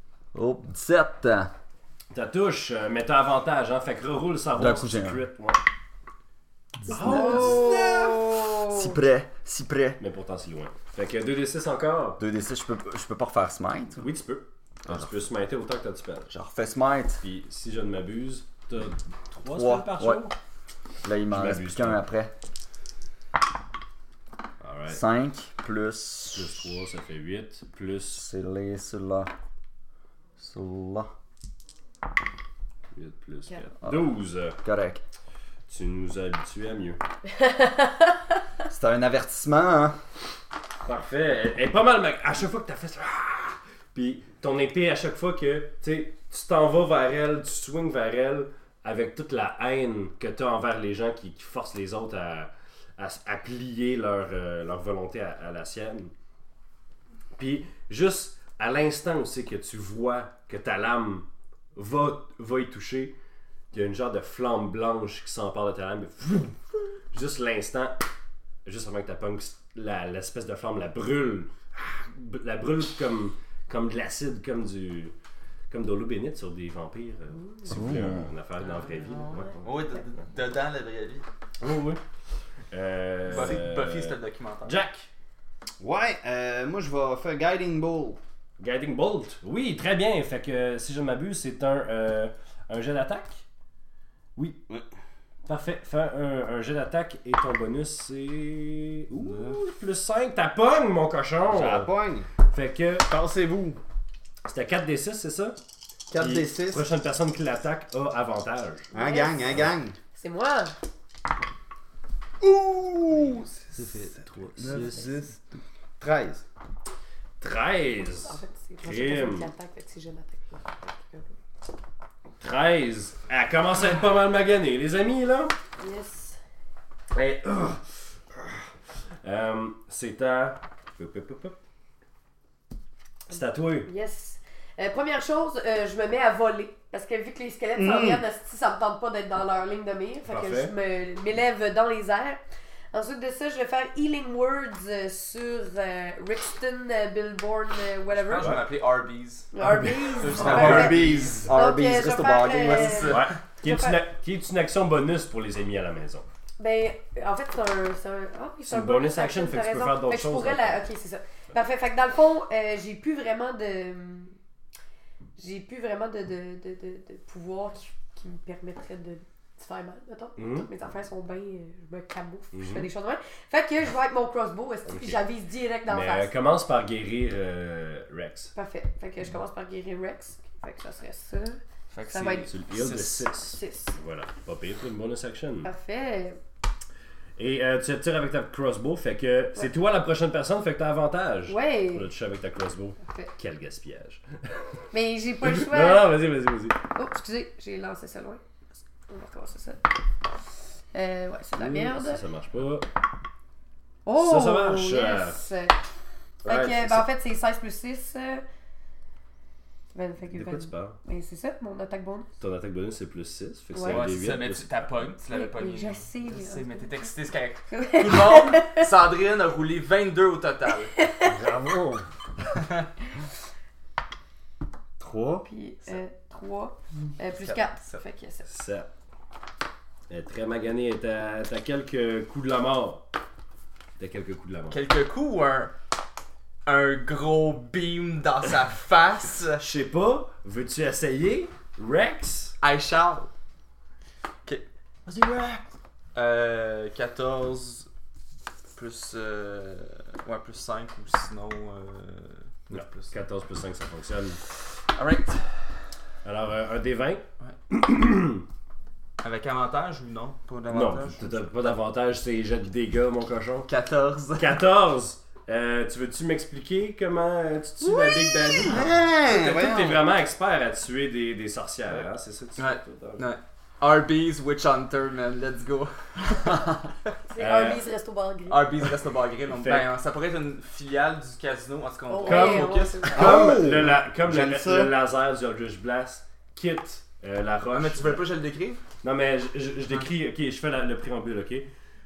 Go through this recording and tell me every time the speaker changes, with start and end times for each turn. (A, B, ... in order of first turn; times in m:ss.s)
0:00.3-0:01.5 A
0:02.1-0:05.6 B
0:04.6-0:05.2 A
0:06.8-0:07.9 A
0:06.9-0:08.9 C
0:06.9-0:08.4 B
0:08.6-0:10.0 A
0:10.0-0:12.2 B
0:12.2-0:14.1 A
0:14.0-0:16.3 B
0:14.9-0:15.1 A
0:16.3-0:17.2 A
0:17.2-0:20.4 B
0:19.5-0:20.2 A
0:21.0-0:22.3 A
0:21.3-0:22.0 B
0:24.6-0:25.0 B
0:24.9-0:26.6 A
0:26.3-0:28.2 B
0:28.1-0:29.3 A
0:30.4-0:31.1 A
0:32.9-0:34.6 B
0:34.6-0:35.0 A
0:35.7-0:37.0 B
0:37.4-0:38.1 C
0:38.7-0:40.0 A
0:40.8-0:56.1 B
0:57.4-1:03.2 B
1:03.7-1:06.6 B
1:07.1-1:08.0 B
1:08.6-1:15.2 B
1:15.7-1:19.7 B
1:17.7-1:18.3 A
1:18.6-1:21.2 D
1:21.6-1:22.0 B
1:22.7-1:25.1 B
1:23.2-1:24.8 D
1:23.3-1:23.6 E
1:25.8-1:28.2 E
1:28.6-1:33.4 B
1:35.5-1:41.9 B
1:39.1-1:39.6 E
1:41.5-1:42.3 E
1:42.5-1:43.1 B
1:43.0-1:43.8 E
1:44.4-1:45.6 B
1:46.1-1:46.9 E
1:46.2-1:48.9 B
1:48.9-1:49.6 C
1:48.9-1:50.0 E
1:50.1-1:50.8 C
1:52.4-1:53.6 E
1:53.1-1:55.0 B
1:54.6-1:56.4 E
1:57.4-1:59.5 B
1:58.0-2:01.4 C
2:02.4-2:05.6 B
2:05.8-2:06.4 C
2:07.1-2:08.7 B
2:09.2-2:11.6 B
2:13.3-2:13.9 B
2:13.9-2:22.4 C
2:17.8-2:18.2 E
2:20.3-2:20.7 B
2:22.9-2:28.5 C
2:28.1-2:29.5 D
2:29.5-2:34.0 C
2:29.6-2:31.1 B
2:30.2-2:31.5 D
2:30.3-2:31.5 E
2:31.3-2:33.2 A
2:32.6-2:33.4 D
2:33.1-2:36.2 B
2:36.6-2:44.4 C
2:38.7-2:40.8 B
2:45.4-2:56.3 C
2:50.4-2:50.7 B
2:52.5-2:52.9 B
2:54.9-2:55.2 B
2:55.9-2:58.5 B
2:58.6-3:02.5 C
3:01.9-3:03.3 D
3:02.4-3:05.7 B
3:03.3-3:04.0 C
3:05.6-3:06.4 C
3:07.4-3:14.7 B
3:11.5-3:12.1 C
3:13.0-3:13.3 C
3:14.9-3:16.1 C
3:15.4-3:16.8 B
3:16.9-3:18.4 C
3:19.1-3:19.8 C
3:20.9-3:22.2 C
3:21.6-3:22.9 B
3:24.0-3:25.8 C
3:24.2-3:25.4 B
3:26.4-3:27.0 B
3:26.4-3:28.4 C
3:29.9-3:32.3 C
3:30.3-3:31.0 B
3:32.4-3:34.8 B
3:33.7-3:34.0 C
3:33.8-3:41.0 D
3:35.3-3:37.1 C
3:37.7-3:38.9 C
3:41.0-3:41.3 C
3:41.3-3:42.0 B
3:45.5-3:48.5 C
3:47.3-3:48.0 D
3:48.5-3:48.9 B
3:50.1-3:53.1 B
3:54.0-3:54.8 B
3:54.7-3:55.7 D
3:56.7-3:59.6 D
3:59.6-4:02.6 B
4:02.6-4:03.3 D
4:04.4-4:07.9 D
4:08.8-4:13.2 D
4:12.7-4:14.4 B
4:14.8-4:15.9 D
4:16.2-4:18.4 B
4:19.2-4:21.4 D
4:20.7-4:23.7 B
4:23.7-4:24.6 D
4:24.4-4:33.3 B
4:28.5-4:30.1 E
4:32.6-4:36.8 D
4:37.3-4:38.7 C
4:37.4-4:37.8 B
4:38.5-4:43.1 D
4:39.5-4:39.9 B
4:42.1-4:43.4 C
4:42.3-4:48.2 B
4:43.1-4:44.9 E
4:47.7-4:48.8 D
4:49.0-4:51.7 B